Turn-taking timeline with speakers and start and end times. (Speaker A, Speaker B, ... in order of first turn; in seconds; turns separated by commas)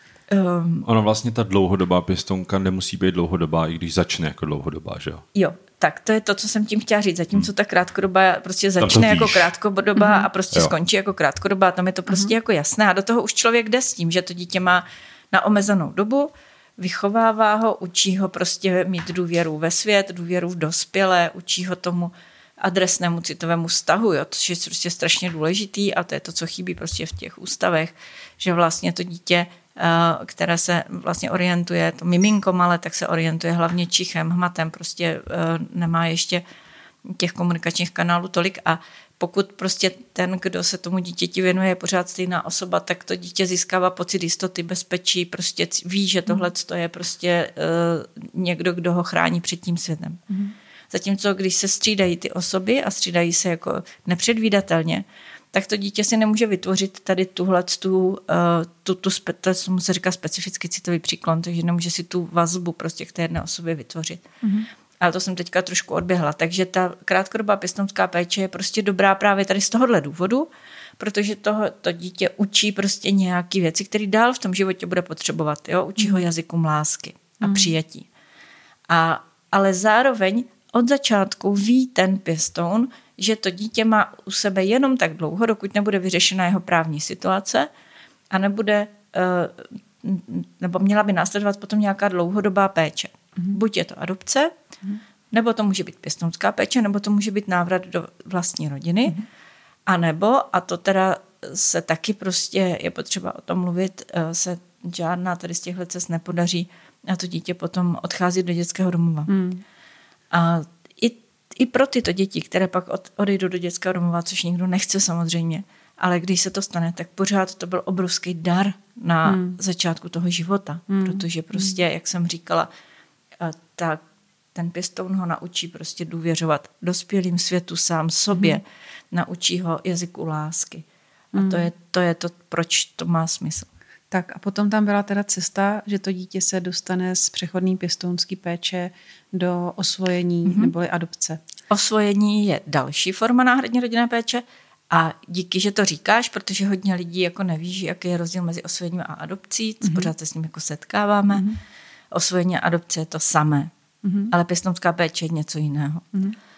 Speaker A: 0.3-0.9, Speaker B: 0.8-5.2, Speaker A: 5.3-36.4, Speaker B: 8.8-9.5, Speaker C: 10.0-10.3, Speaker A: 37.1-50.2, Speaker A: 50.9-64.2, Speaker A: 65.0-78.1, Speaker C: 76.0-76.2, Speaker C: 77.4-77.7, Speaker A: 78.9-87.7, Speaker A: 88.3-94.5, Speaker A: 95.3-99.2, Speaker A: 99.9-109.3, Speaker C: 109.3-109.6, Speaker A: 110.3-122.7, Speaker C: 119.3-119.6, Speaker C: 120.9-121.8, Speaker A: 123.4-124.0, Speaker A: 124.5-133.7, Speaker C: 128.3-128.6, Speaker C: 131.3-131.7, Speaker C: 134.1-141.4, Speaker A: 140.4-140.7, Speaker A: 141.7-151.5, Speaker C: 149.8-150.1, Speaker C: 151.3-151.6, Speaker A: 152.1-153.7, Speaker C: 154.0-154.3, Speaker A: 154.3-156.1